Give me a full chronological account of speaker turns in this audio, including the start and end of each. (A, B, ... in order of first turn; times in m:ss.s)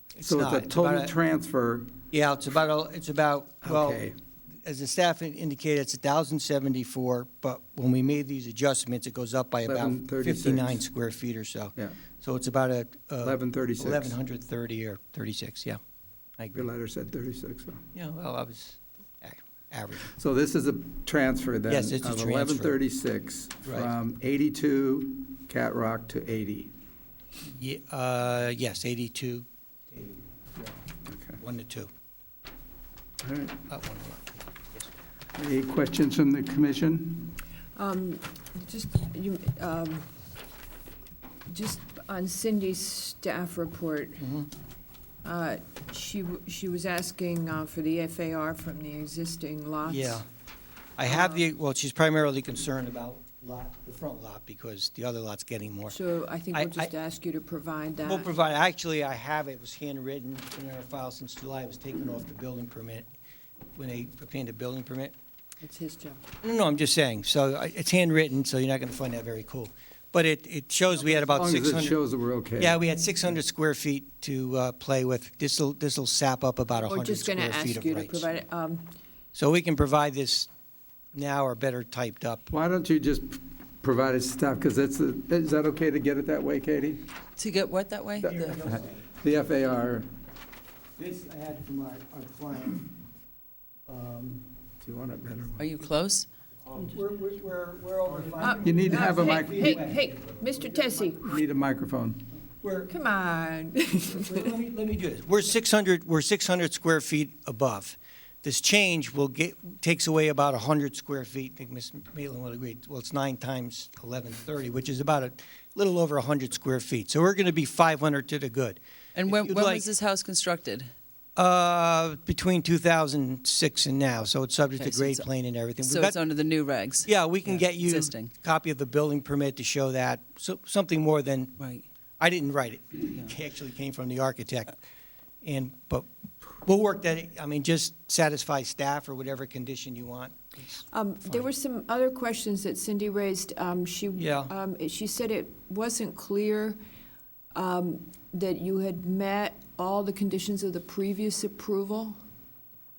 0:00.1-0:01.1 A
0:00.2-0:01.9 B
0:02.1-0:04.0 A
0:03.6-0:04.2 B
0:04.6-0:15.8 A
0:09.6-0:10.8 B
0:13.2-0:14.2 B
0:16.4-0:16.6 A
0:16.5-0:17.8 B
0:17.9-0:20.1 A
0:20.1-0:26.7 B
0:21.7-0:22.7 A
0:27.5-0:30.6 A
0:31.0-0:31.4 B
0:31.4-0:31.9 A
0:33.2-0:33.6 B
0:33.7-0:34.9 A
0:35.3-0:37.4 B
0:37.8-0:40.1 C
0:41.5-0:44.2 C
0:44.2-0:44.5 A
0:45.2-0:50.2 C
0:49.8-0:50.2 A
0:51.0-0:56.0 A
0:51.1-0:51.4 C
0:55.9-0:58.3 C
0:56.5-0:56.9 A
0:58.0-1:03.1 A
1:03.8-1:05.1 A
1:05.6-1:06.2 C
1:06.4-1:12.0 A
1:11.0-1:12.8 B
1:12.6-1:18.2 A
1:16.8-1:18.9 C
1:19.3-1:20.5 A
1:21.1-1:22.5 A
1:22.5-1:27.1 B
1:27.4-1:28.5 D
1:28.2-1:30.1 B
1:28.2-1:29.0 A
1:31.0-1:32.9 A
1:33.9-1:34.4 A
1:34.8-1:35.7 B
1:35.6-1:36.3 D
1:36.6-1:41.2 A
1:38.4-1:41.4 C
1:38.6-1:39.7 B
1:41.2-1:42.2 B
1:42.6-1:42.9 A
1:42.9-1:44.5 C
1:44.0-1:59.9 A
1:59.1-2:00.9 D
2:01.4-2:06.2 A
2:04.8-2:05.2 D
2:05.8-2:08.3 D
2:07.0-2:11.6 A
2:11.6-2:11.8 D
2:12.2-2:14.8 A
2:15.4-2:16.1 A
2:16.6-2:21.4 A
2:20.9-2:26.8 C
2:24.2-2:24.5 A
2:27.5-2:32.2 C